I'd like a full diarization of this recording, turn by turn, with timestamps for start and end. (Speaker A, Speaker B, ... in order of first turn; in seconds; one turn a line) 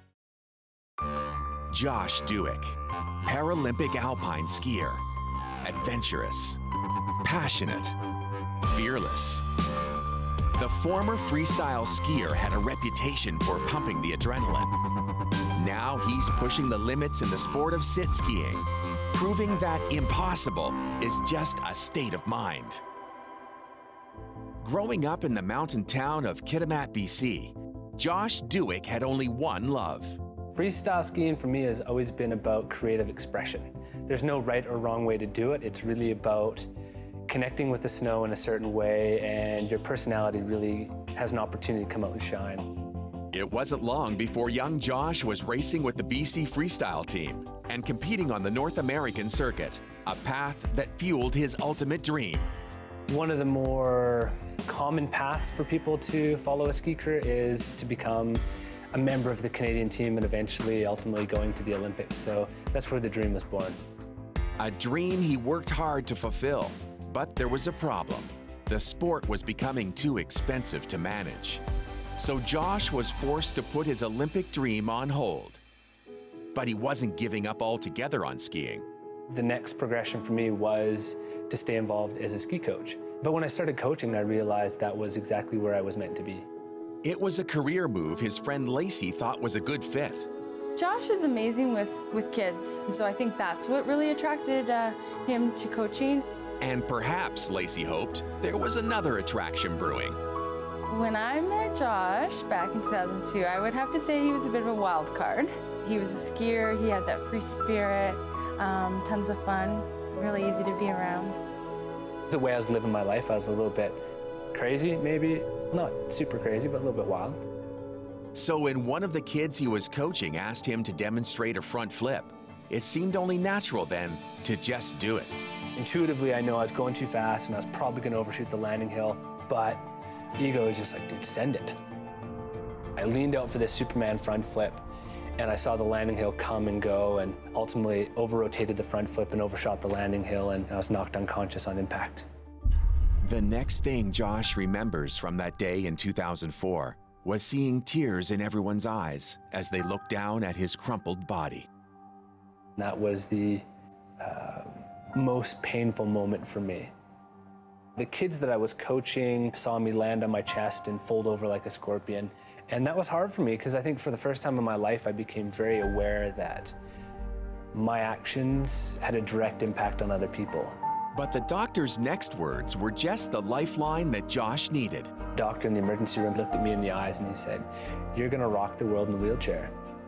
Speaker A: 1.7-5.0
Speaker A: 5.6-6.6
Speaker A: 7.2-8.0
Speaker A: 8.7-9.5
Speaker A: 10.5-14.7
Speaker A: 15.6-22.8
Speaker A: 24.6-30.2
Speaker B: 30.5-36.7
Speaker B: 37.3-42.7
Speaker A: 43.3-52.5
Speaker B: 53.1-63.8
Speaker A: 64.6-71.6
Speaker A: 72.2-75.6
Speaker A: 76.5-78.9
Speaker B: 79.3-86.5
Speaker A: 87.0-90.3
Speaker C: 90.8-96.2
Speaker A: 96.6-100.2
Speaker C: 100.9-111.4
Speaker B: 112.3-114.0
Speaker B: 114.5-117.4
Speaker A: 118.3-125.4
Speaker B: 125.8-129.8
Speaker B: 130.4-131.8
Speaker B: 133.0-134.8
Speaker B: 135.4-142.2
Speaker A: 143.2-151.7
Speaker B: 152.8-153.6
Speaker B: 154.2-156.9
Speaker B: 157.9-166.8
Speaker B: 167.7-170.8
Speaker A: 171.1-175.1
Speaker B: 175.3-179.7